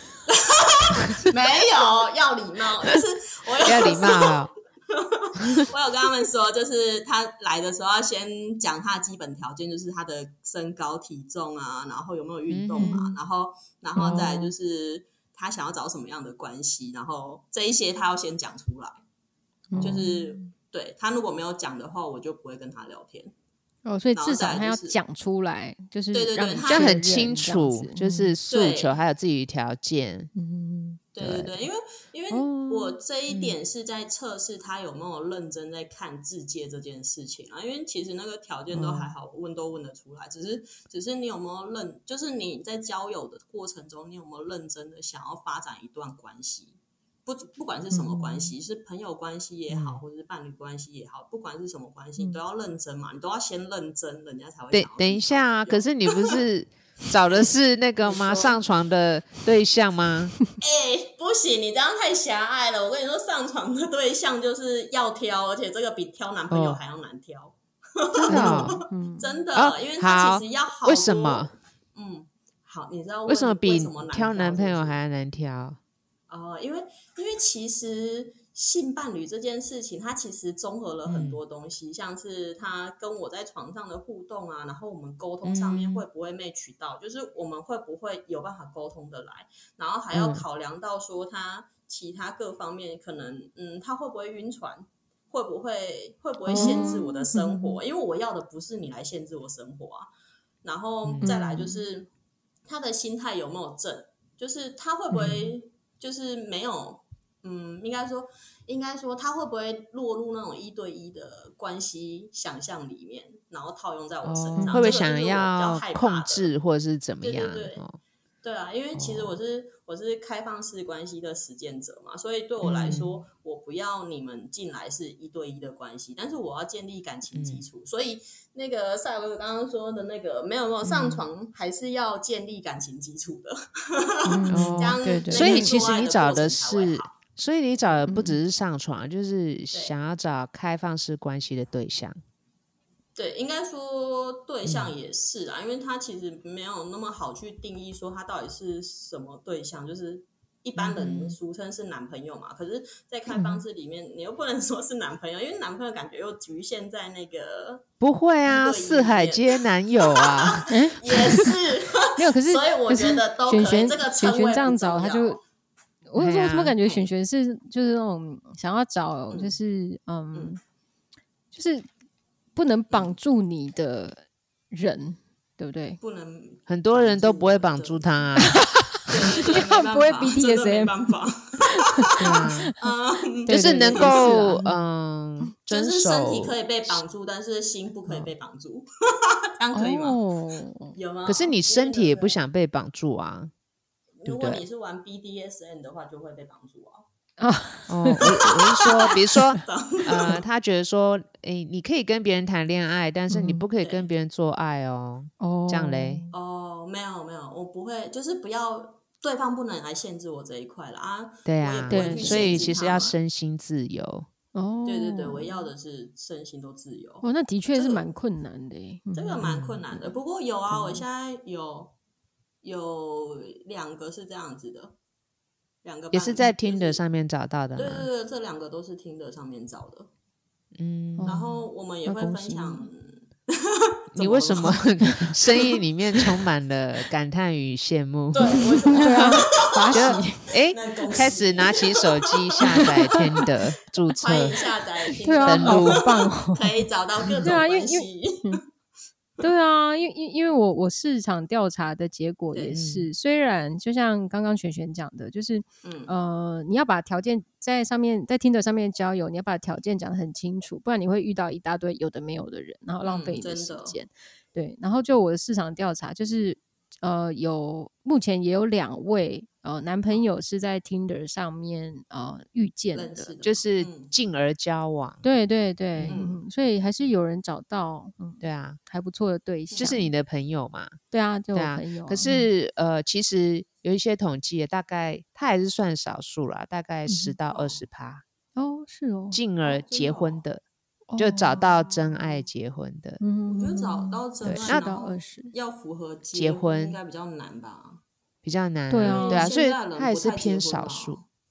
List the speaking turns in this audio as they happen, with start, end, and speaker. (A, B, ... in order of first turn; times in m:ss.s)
0:00.3-0:19.0 A
0:03.6-0:04.5 B
0:12.5-0:13.0 B
0:12.8-0:13.2 C
0:14.0-0:14.5 C
0:19.7-0:20.5 C
0:19.7-0:20.0 B
0:19.8-0:23.3 A
0:23.8-0:28.3 C
0:24.1-0:25.0 A
0:26.1-0:27.0 A
0:26.6-0:30.3 B
0:28.5-0:29.0 A
0:30.3-0:31.0 C
0:31.1-0:56.4 A
0:31.2-0:31.6 B
0:32.3-0:33.0 C
0:38.7-0:39.1 B
0:47.9-0:48.5 C
0:49.7-0:50.0 B
0:54.7-1:00.3 B
0:58.0-0:58.6 A
1:00.6-1:15.0 A
1:06.5-1:06.8 B
1:08.2-1:08.8 B
1:08.3-1:09.4 C
1:09.5-1:11.5 B
1:13.3-1:15.8 B
1:16.3-1:40.1 A
1:21.0-1:21.4 B
1:25.4-1:26.0 B
1:30.1-1:30.4 B
1:36.5-1:37.8 C
1:36.5-1:37.0 B
1:40.6-1:42.1 A
1:41.2-1:41.8 C
1:42.6-1:56.5 A
1:54.2-1:58.0 B
1:54.6-1:54.9 C
1:57.2-1:57.8 A
1:58.4-2:17.2 A
1:58.9-1:59.4 B
2:02.6-2:03.2 B
2:07.3-2:07.6 B
2:10.9-2:11.1 B
2:14.2-2:15.8 C
2:14.5-2:22.2 B
2:18.1-2:18.4 C
2:23.2-2:37.8 A
2:24.6-2:24.9 B
2:30.8-2:31.4 B
2:33.3-2:33.6 C
2:38.0-2:40.7 B
2:38.4-2:45.4 A
2:40.7-2:41.5 C
2:42.2-2:45.4 C
2:46.1-2:50.6 C
2:46.2-2:46.8 B
2:46.8-2:47.1 A
2:49.3-2:49.6 A
2:51.5-2:51.9 C
2:52.5-2:56.0 C
2:56.0-2:58.2 A
2:56.7-2:58.6 B
2:58.6-3:01.1 C
2:59.0-3:04.5 A
3:01.8-3:02.7 C
3:02.2-3:02.7 B
3:03.5-3:04.8 C
3:03.5-3:07.0 B
3:05.7-3:10.2 A
3:09.7-3:11.0 C
3:10.9-3:12.4 A
3:11.2-3:13.5 B
3:14.2-3:17.0 A
3:14.2-3:14.6 B
3:17.4-3:18.4 C
3:17.9-3:26.2 B
3:18.2-3:20.4 A
3:23.3-3:23.6 C
3:23.8-3:24.1 A
3:25.4-3:26.3 C
3:26.3-3:33.2 A
3:31.4-3:34.3 B
3:31.9-3:32.7 C
3:34.5-3:35.7 C
3:34.8-3:38.0 A
3:37.2-3:40.0 C
3:39.1-3:41.9 A
3:39.4-3:39.8 B
3:40.7-3:41.0 B
3:42.6-3:45.0 A
3:45.8-3:47.0 A
3:46.1-3:48.1 B
3:47.8-3:50.1 A
3:50.7-3:51.4 B
3:51.2-3:52.9 C
3:51.2-3:54.9 A
3:54.1-4:04.6 B
3:55.0-3:55.6 C
3:58.3-4:03.4 A
3:58.9-4:00.5 C
4:02.6-4:03.1 C
4:04.1-4:08.6 A
4:05.2-4:06.8 C
4:05.4-4:06.0 B
4:07.4-4:08.6 C
4:09.4-4:33.3 C
4:12.5-4:12.8 A
4:12.7-4:13.1 B
4:15.8-4:16.1 A
4:23.0-4:24.0 A
4:32.9-4:34.1 A
4:33.4-4:35.2 B
4:35.2-4:40.1 C
4:35.9-4:36.2 B
4:36.1-4:36.4 A
4:38.4-4:38.8 B
4:39.7-4:40.0 A
4:39.8-4:41.0 B
4:41.1-4:42.5 C
4:41.5-4:48.2 B
4:47.1-4:47.4 C
4:47.5-4:47.8 A
4:48.6-4:49.4 C
4:49.3-4:50.6 B
4:49.6-4:50.4 A
4:51.1-4:51.8 C
4:51.2-4:53.2 B
4:53.2-4:55.5 C
4:53.5-4:58.0 A
4:54.4-4:54.8 B
4:56.3-4:57.0 B
4:58.4-5:01.2 B
4:58.9-4:59.5 C
4:59.0-5:01.2 A